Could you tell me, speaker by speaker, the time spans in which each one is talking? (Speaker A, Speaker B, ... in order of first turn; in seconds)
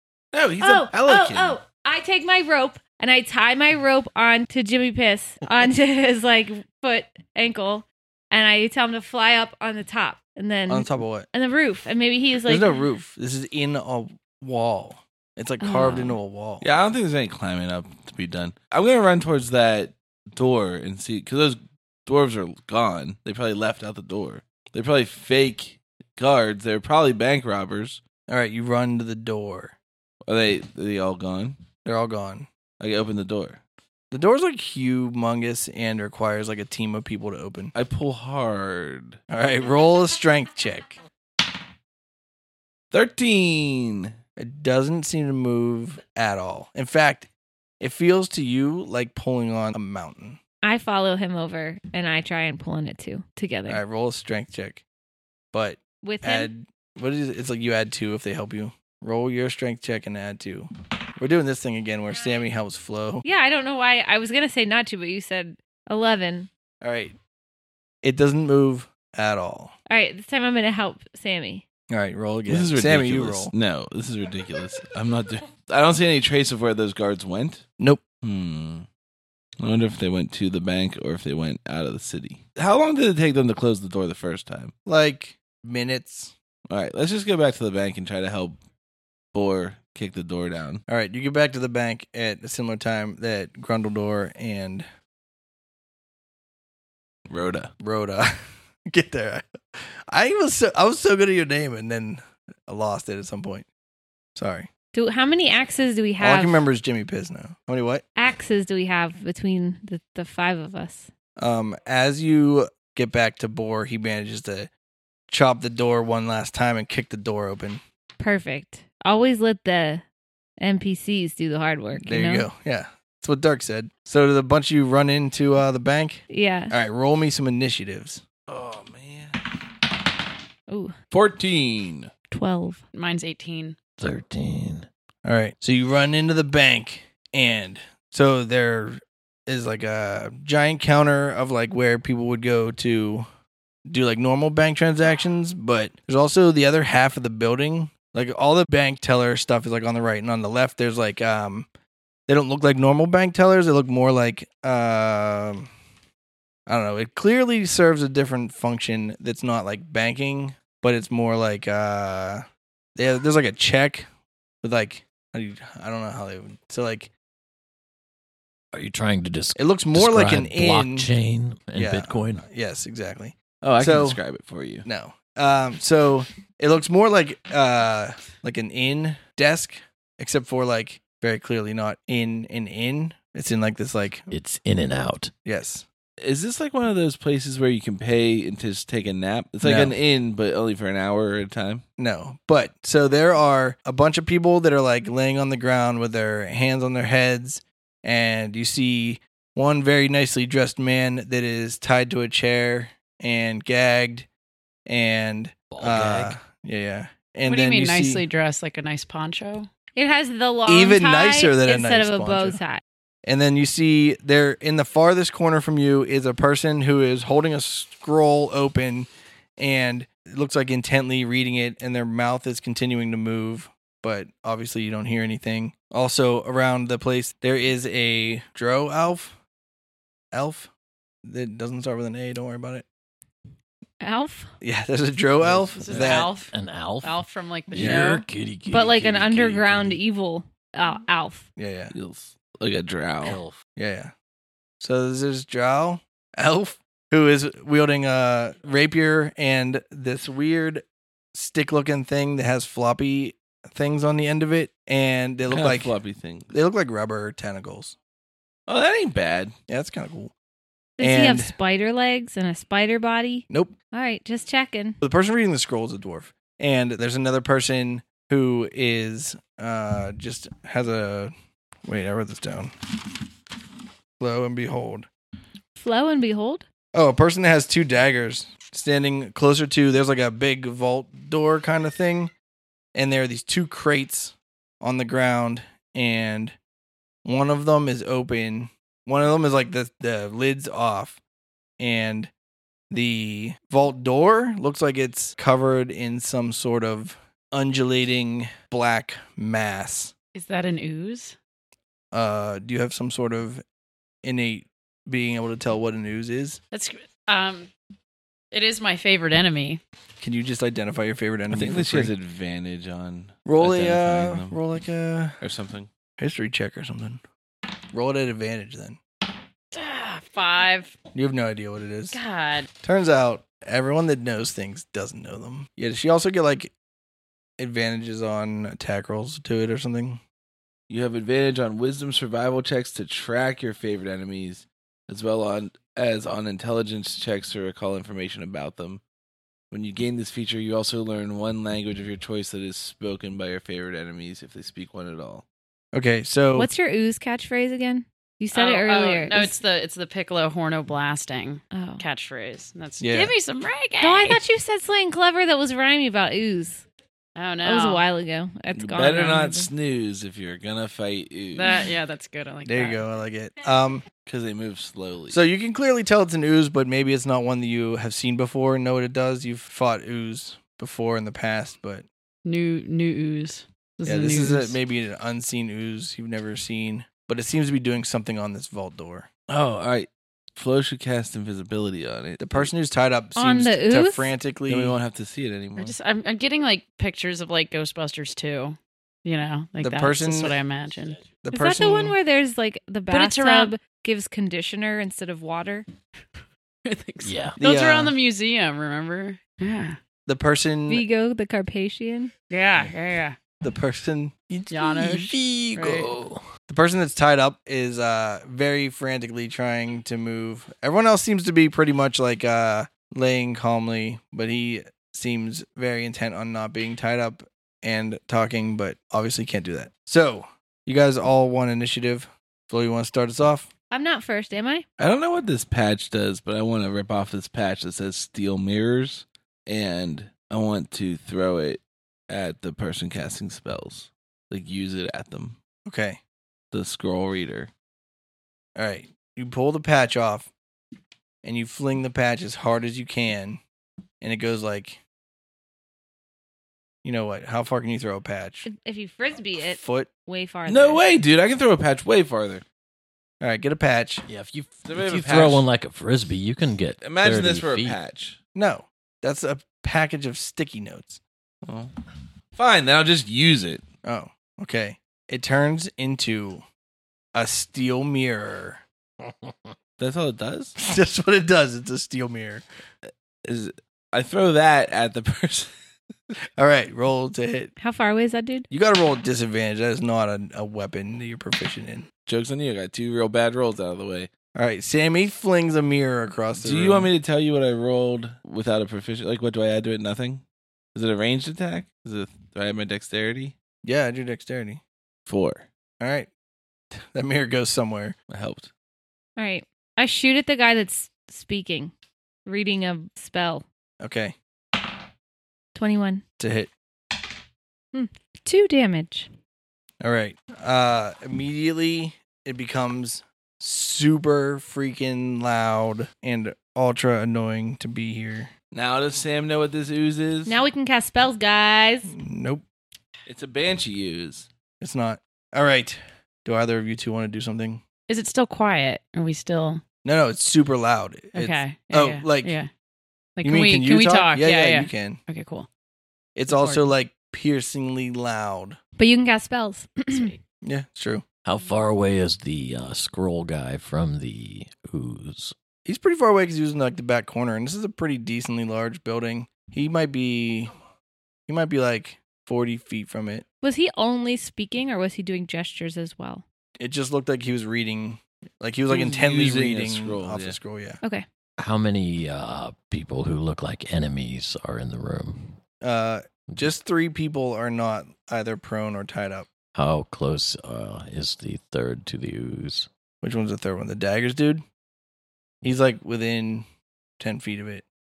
Speaker A: 0.3-1.6, 16.6-28.0, 30.2-31.6, 32.8-33.6, 37.7-39.2, 42.9-44.1, 72.5-77.7, 78.2-78.9, 79.6-84.7, 86.7-88.6, 89.3-90.8, 97.3-97.7, 128.5-129.4, 131.1-132.1, 173.6-174.9, 186.2-191.8, 241.9-243.4, 255.5-256.5, 258.7-259.6, 311.5-314.6, 315.4-315.9, 330.9-339.0, 339.7-345.4, 358.7-361.8, 364.2-365.4, 379.5-382.7, 384.7-386.0, 425.0-435.6, 436.7-437.7, 450.7-452.6, 454.9-455.6, 457.0-458.4, 461.6-461.9, 462.6-463.9, 470.0-470.8, 473.1-475.7, 482.3-484.3, 486.6-490.4, 490.9-493.5, 495.3-495.7, 498.3-498.7, 518.7-520.6, 523.3-524.5, 558.9-560.6
Speaker B: 0.6-12.8, 15.6-16.2, 50.6-53.8, 56.0-56.5, 63.2-66.5, 69.9-71.6, 104.9-106.6, 108.2-111.1, 118.2-120.0, 120.6-122.5, 126.3-126.7, 130.7-130.9, 132.3-132.8, 210.0-212.8, 234.0-234.5, 238.7-241.5, 261.0-265.0, 275.8-276.6, 346.6-349.6, 351.7-352.0, 354.0-356.8, 357.6-359.7, 383.4-384.3, 391.5-395.9, 400.9-402.3, 423.9-424.9, 448.7-451.0, 477.8-478.7, 499.4-501.9, 502.5-503.6, 505.8-506.2, 507.9-509.3, 520.5-522.1, 539.0-540.4, 553.6-556.4
Speaker C: 10.7-11.3, 12.5-16.7, 28.3-29.8, 31.9-32.5, 34.1-37.7, 39.3-41.0, 44.4-47.3, 47.8-50.4, 53.7-54.8, 55.5-63.2, 66.8-67.2, 68.0-69.7, 71.9-73.5, 84.9-86.3, 90.9-94.9, 97.8-103.7, 104.4-104.7, 106.2-108.0, 111.4-114.7, 115.3-117.8, 122.0-128.2, 135.2-143.3, 143.9-151.7, 152.3-155.7, 156.7-162.4, 163.0-164.1, 164.6-167.1, 169.6-171.1, 171.7-174.2, 174.8-184.3, 185.4-185.9, 189.6-189.9, 192.0-204.3, 204.9-208.2, 210.7-212.6, 213.2-229.4, 230.3-230.7, 231.2-232.9, 234.6-236.3, 241.6-241.9, 243.8-244.1, 244.8-250.8, 251.3-255.9, 256.5-257.9, 259.7-260.3, 261.0-261.5, 265.0-271.3, 271.9-272.7, 274.2-275.1, 276.9-282.3, 282.9-286.6, 287.2-291.2, 291.8-292.3, 292.9-300.1, 302.1-303.6, 304.2-306.6, 310.2-312.1, 313.5-315.4, 316.2-317.2, 317.9-319.0, 321.1-322.2, 322.8-326.7, 327.6-330.2, 345.9-346.7, 353.0-353.3, 362.7-364.1, 365.3-372.1, 374.1-379.3, 382.4-385.0, 389.8-390.6, 391.4-392.2, 397.6-398.1, 400.3-401.1, 403.6-405.2, 406.7-423.7, 435.9-436.2, 438.8-440.5, 441.4-443.6, 444.2-445.0, 447.0-448.7, 449.5-450.1, 453.4-454.2, 458.6-461.2, 464.0-466.6, 467.3-468.8, 470.8-472.6, 476.6-477.7, 478.7-482.1, 484.6-487.1, 493.8-494.8, 496.0-496.3, 496.9-498.2, 504.0-504.4, 506.4-506.7, 510.0-518.5, 522.1-522.6, 524.8-527.8, 530.0-532.5, 533.4-535.2, 536.4-538.8, 540.6-541.2, 545.9-550.7, 551.5-553.4, 556.8-561.0, 565.8-569.5, 573.2-574.6, 575.6-576.7, 577.2-577.9
Speaker D: 132.9-133.8, 207.5-209.7, 235.8-238.2, 300.4-301.4, 306.7-307.7, 308.5-309.8, 319.7-321.0, 322.1-322.7, 348.5-354.4, 357.4-358.1, 361.5-363.0, 372.4-374.8, 385.8-391.2, 393.1-393.7, 396.9-400.0, 402.5-403.4, 404.7-406.1, 528.1-529.8, 531.4-532.7, 533.4-535.7, 536.5-536.9
Speaker E: 134.0-134.9, 168.7-172.5, 184.3-185.3, 205.7-206.3, 235.5-240.0, 243.2-243.6, 397.2-397.6, 405.0-406.5, 454.3-458.0, 541.5-545.5, 561.6-565.6, 569.7-572.9